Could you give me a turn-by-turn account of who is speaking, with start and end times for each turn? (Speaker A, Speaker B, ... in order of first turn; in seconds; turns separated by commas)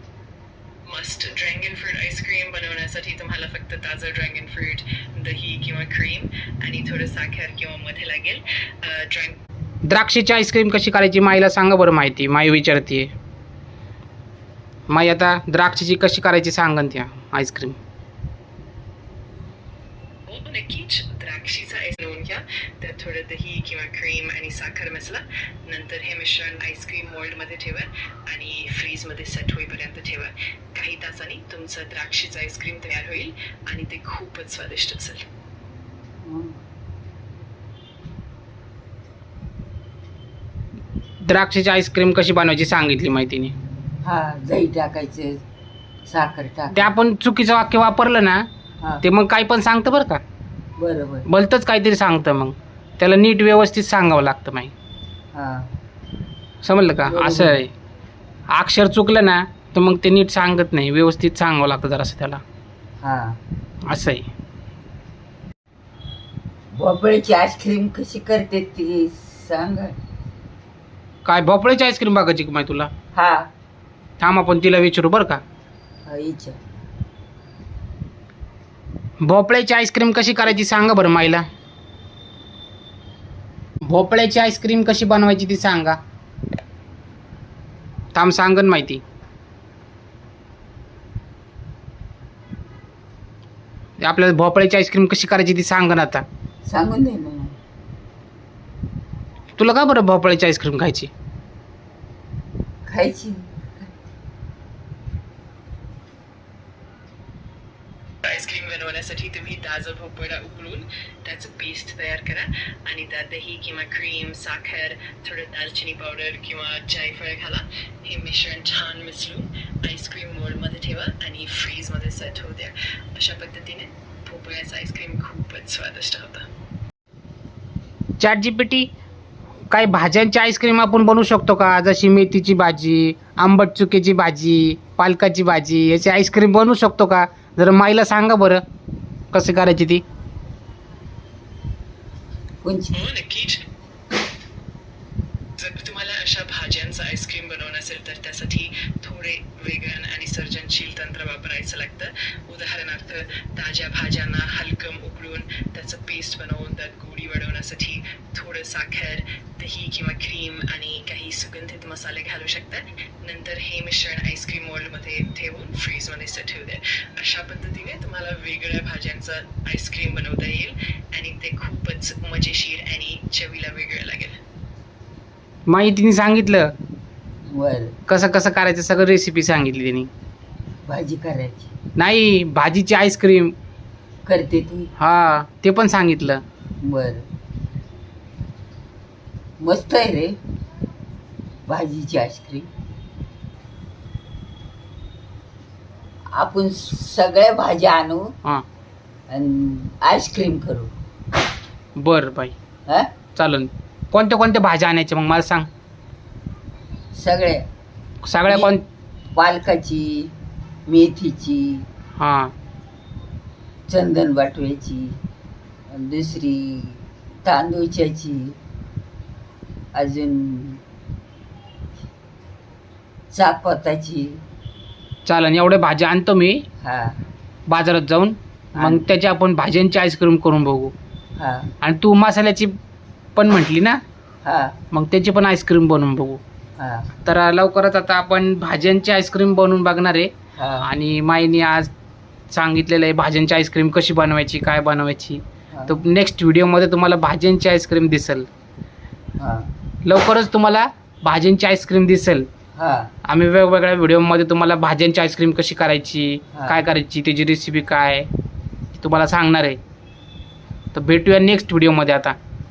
Speaker A: 0.9-9.4, Speaker B: 9.9-13.1, Speaker B: 14.9-17.8, Speaker A: 20.3-35.2, Speaker C: 36.2-36.6, Speaker B: 41.2-43.5, Speaker C: 44.0-45.4, Speaker C: 46.1-46.9, Speaker B: 46.7-48.4, Speaker B: 49.0-50.2, Speaker C: 50.8-51.3, Speaker B: 51.3-54.7, Speaker C: 55.3-55.7, Speaker B: 56.6-57.7, Speaker C: 57.0-57.6, Speaker B: 58.5-62.4, Speaker C: 63.0-63.4, Speaker B: 63.9-64.3, Speaker C: 66.8-70.0, Speaker B: 71.2-72.9, Speaker C: 73.1-73.5, Speaker B: 74.2-75.4, Speaker C: 76.1-76.6, Speaker B: 79.2-81.5, Speaker B: 83.9-86.0, Speaker B: 88.1-89.0, Speaker B: 94.0-96.2, Speaker C: 96.7-97.6, Speaker B: 99.6-101.1, Speaker C: 102.9-103.5, Speaker A: 108.2-126.5, Speaker B: 128.2-128.9, Speaker B: 129.7-138.6, Speaker B: 139.3-140.0, Speaker C: 142.6-142.9, Speaker A: 142.9-143.6, Speaker A: 145.6-174.3, Speaker B: 175.7-176.7, Speaker C: 177.5-177.9, Speaker B: 178.1-180.1, Speaker C: 180.9-181.7, Speaker B: 182.0-183.5, Speaker C: 184.3-184.9, Speaker B: 185.0-186.4, Speaker C: 186.8-187.3, Speaker C: 189.6-190.4, Speaker C: 191.7-192.7, Speaker C: 196.3-198.3, Speaker C: 199.3-200.9, Speaker B: 202.0-202.5, Speaker B: 203.4-205.7, Speaker C: 207.2-207.7, Speaker B: 208.2-208.8, Speaker C: 208.5-208.7, Speaker C: 209.3-210.3, Speaker C: 210.9-211.8, Speaker B: 212.2-212.5, Speaker C: 213.9-215.2, Speaker C: 215.9-218.6, Speaker C: 219.9-220.8, Speaker C: 223.3-224.4, Speaker B: 225.3-226.6, Speaker C: 226.8-227.2, Speaker B: 227.7-230.9, Speaker C: 228.8-229.0, Speaker C: 231.4-231.7, Speaker B: 231.8-232.7, Speaker B: 233.4-234.0, Speaker C: 234.4-234.8, Speaker B: 234.9-236.4, Speaker C: 236.8-237.1, Speaker B: 237.2-241.9, Speaker C: 240.6-240.9, Speaker B: 242.5-248.5, Speaker C: 245.7-246.0, Speaker C: 249.4-249.7, Speaker B: 250.1-252.5, Speaker C: 252.8-253.1, Speaker B: 253.3-258.3, Speaker C: 256.5-256.8, Speaker B: 259.0-259.8, Speaker B: 260.9-262.4